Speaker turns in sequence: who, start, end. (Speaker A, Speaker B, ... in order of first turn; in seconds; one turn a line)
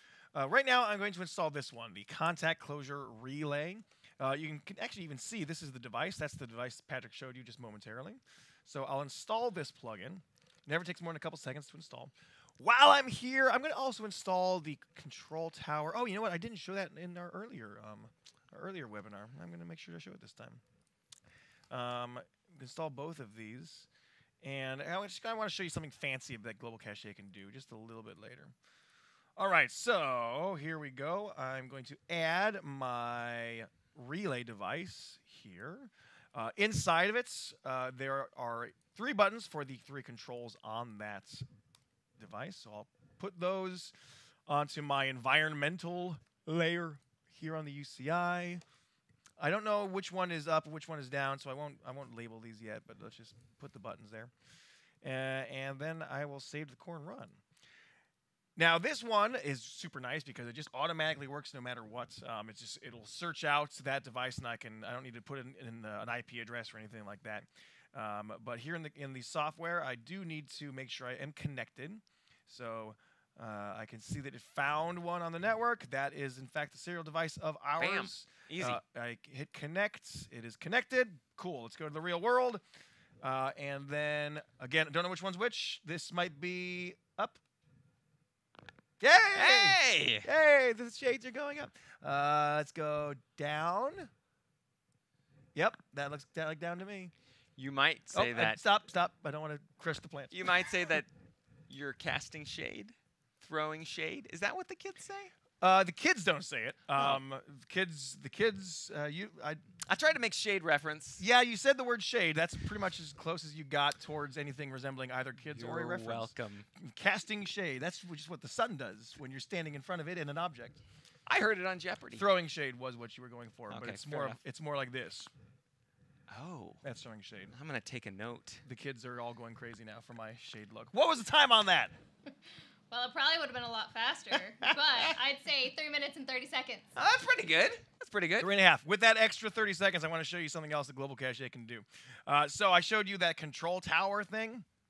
Speaker A: 0.3-20.6
Speaker A: 21.7-23.9
Speaker A: 24.4-28.5
Speaker A: 29.4-41.5
Speaker A: 42.2-43.9
Speaker A: 44.5-48.6
Speaker A: 49.4-54.3
Speaker A: 55.0-57.4
Speaker A: 58.6-82.6
Speaker B: 77.8-78.8
Speaker A: 83.2-87.4
Speaker A: 89.0-94.1
Speaker B: 89.3-90.3
Speaker A: 95.5-97.1
Speaker B: 97.6-98.6
Speaker A: 98.1-100.7
Speaker B: 100.3-101.1
Speaker B: 101.7-105.3
Speaker A: 105.6-109.6
Speaker B: 109.9-111.2
Speaker A: 111.2-120.8
Speaker B: 115.5-116.7
Speaker B: 121.3-122.3
Speaker A: 122.2-125.3
Speaker B: 123.7-124.4
Speaker B: 126.3-126.8
Speaker A: 126.8-127.5
Speaker B: 127.5-128.6
Speaker A: 128.7-131.9
Speaker C: 132.9-136.9
Speaker A: 134.3-135.1
Speaker B: 137.0-138.5
Speaker A: 138.4-144.7